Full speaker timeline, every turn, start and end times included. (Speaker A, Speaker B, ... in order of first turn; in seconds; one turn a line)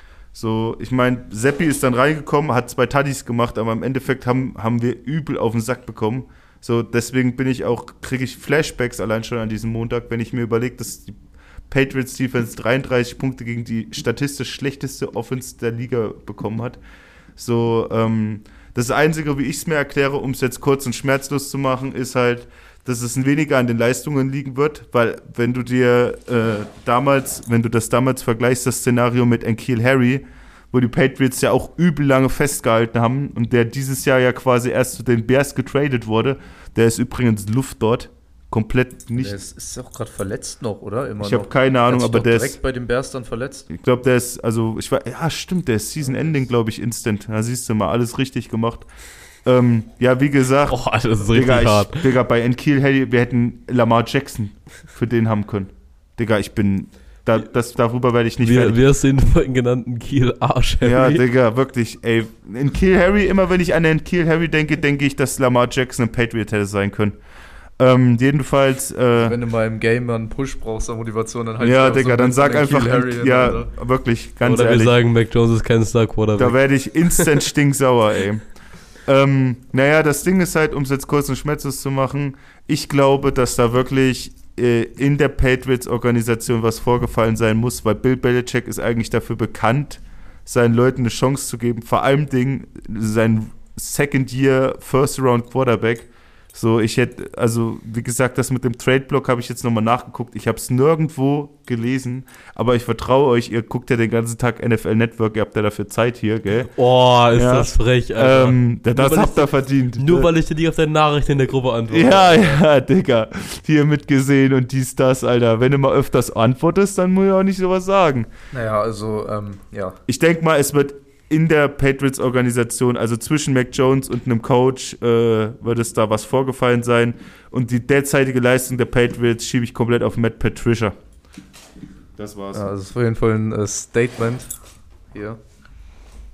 Speaker A: 0.3-11.2
Speaker A: 11.7-16.8
Speaker A: 17.4-39.4
Speaker B: 39.2-43.7
Speaker A: 41.2-42.6
Speaker A: 43.7-48.9
Speaker B: 46.0-46.4
Speaker A: 49.5-58.8
Speaker C: 50.7-52.1
Speaker C: 58.4-61.2
Speaker A: 60.8-67.2
Speaker A: 67.8-69.4
Speaker B: 69.2-73.7
Speaker A: 71.6-75.0
Speaker C: 74.4-76.6
Speaker A: 76.4-78.5
Speaker C: 77.1-77.4
Speaker A: 79.0-106.7
Speaker C: 106.7-112.3
Speaker A: 107.3-110.3
Speaker A: 111.9-118.3
Speaker B: 112.0-112.6
Speaker B: 118.5-120.0
Speaker A: 120.1-130.9
Speaker A: 132.2-132.7
Speaker B: 132.5-134.6
Speaker B: 135.1-135.4